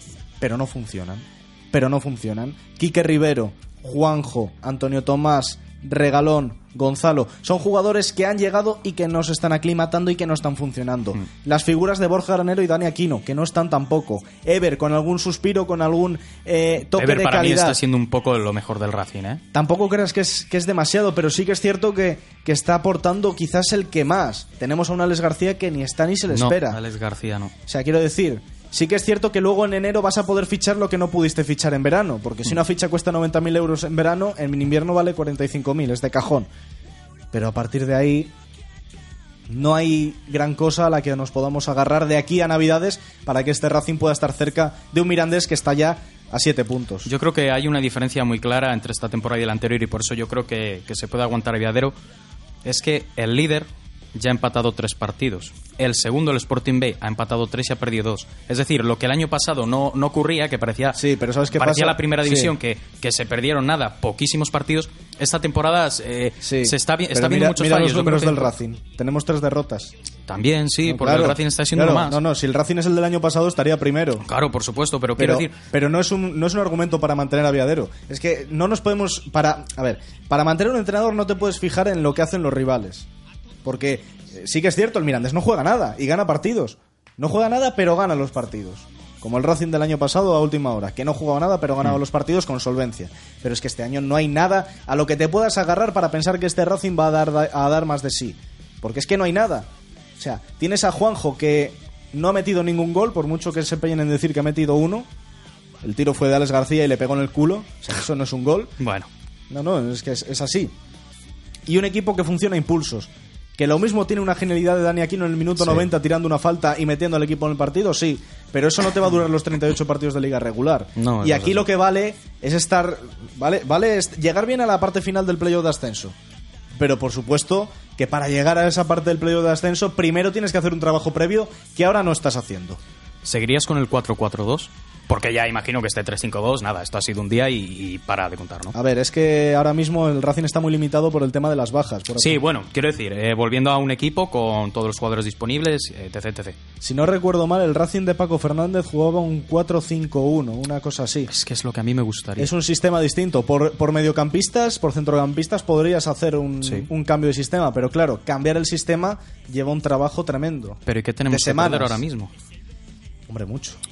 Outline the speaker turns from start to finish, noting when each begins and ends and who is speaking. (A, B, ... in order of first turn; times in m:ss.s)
0:00.4-0:17.8 A
0:17.0-0:19.4 B
0:19.5-0:26.8 A
0:26.3-0:27.5 B
0:27.7-0:36.5 A
0:37.3-0:38.3 A
0:39.5-0:47.1 A
0:47.0-0:51.9 B
0:52.6-1:01.0 B
1:00.9-1:02.5 A
1:01.5-1:08.5 B
1:06.4-1:09.9 A
1:10.3-1:12.2 B
1:10.9-1:14.3 A
1:14.3-1:15.5 B
1:15.2-1:23.1 A
1:23.6-1:45.1 A
1:45.8-1:48.7 A
1:48.8-1:49.1 B
1:49.5-1:50.7 A
1:51.7-2:06.2 A
1:55.6-1:55.9 B
2:01.0-2:01.6 B
2:06.8-2:12.8 A
2:13.2-2:18.7 B
2:18.7-2:22.4 A
2:22.2-2:26.6 B
2:26.8-2:31.3 A
2:31.3-2:32.5 B
2:32.4-2:42.0 A
2:36.6-2:36.9 B
2:40.9-2:42.3 B
2:43.3-2:43.8 A